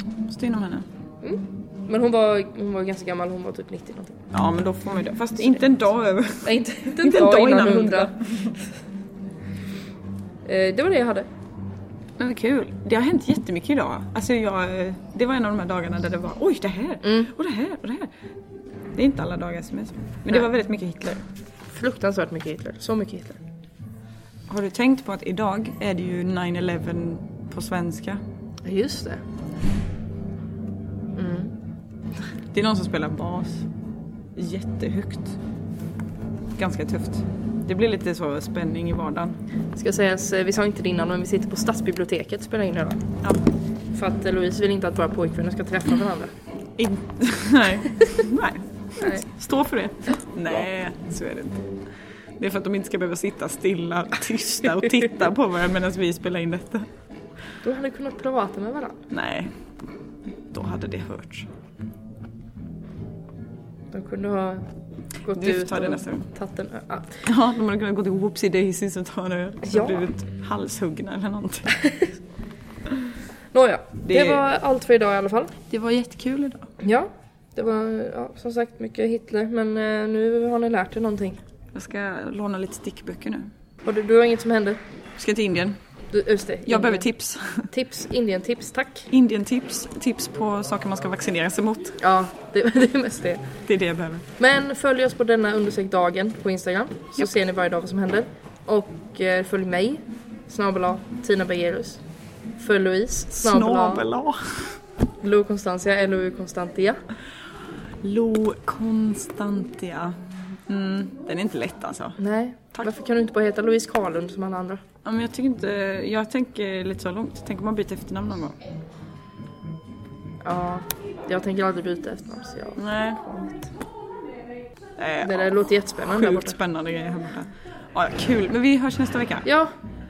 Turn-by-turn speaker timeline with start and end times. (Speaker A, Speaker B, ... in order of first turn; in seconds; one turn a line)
Speaker A: 0.2-0.9
Speaker B: 1.2-4.2
Speaker A: 4.3-8.6
Speaker B: 6.4-8.6
Speaker B: 10.4-11.3
Speaker A: 12.2-18.1
Speaker B: 17.0-17.3
Speaker A: 18.9-21.2
Speaker B: 21.7-23.4
Speaker A: 24.5-28.2
Speaker B: 28.6-29.2
Speaker B: 31.1-31.5
Speaker A: 32.5-33.7
Speaker A: 34.4-35.4
Speaker A: 36.5-39.4
Speaker B: 39.7-43.1
Speaker B: 43.9-46.3
Speaker A: 46.8-51.8
Speaker B: 49.0-49.2
Speaker A: 52.4-56.9
Speaker B: 57.6-59.0
Speaker A: 59.1-59.6
Speaker A: 60.3-61.5
Speaker B: 63.9-64.7
Speaker B: 65.2-67.3
Speaker A: 65.3-66.3
Speaker A: 67.2-71.8
Speaker B: 69.7-70.0
Speaker B: 71.8-72.1
Speaker B: 73.5-75.6
Speaker A: 74.0-74.5
Speaker A: 75.7-76.7
Speaker B: 76.8-81.4
Speaker A: 81.7-83.5
Speaker B: 83.8-84.8
Speaker A: 85.2-85.8
Speaker B: 86.1-87.1
Speaker A: 86.7-87.7
Speaker B: 87.7-89.1
Speaker A: 89.1-92.0
Speaker B: 92.0-93.5
Speaker A: 93.7-94.3
Speaker B: 94.4-102.0
Speaker B: 102.6-104.1
Speaker A: 103.3-104.8
Speaker B: 105.2-107.0
Speaker A: 108.0-112.2
Speaker B: 112.2-114.8
Speaker A: 115.0-118.6
Speaker B: 120.4-123.7
Speaker A: 122.8-123.2
Speaker A: 125.0-129.4
Speaker B: 125.2-126.6
Speaker B: 129.4-129.7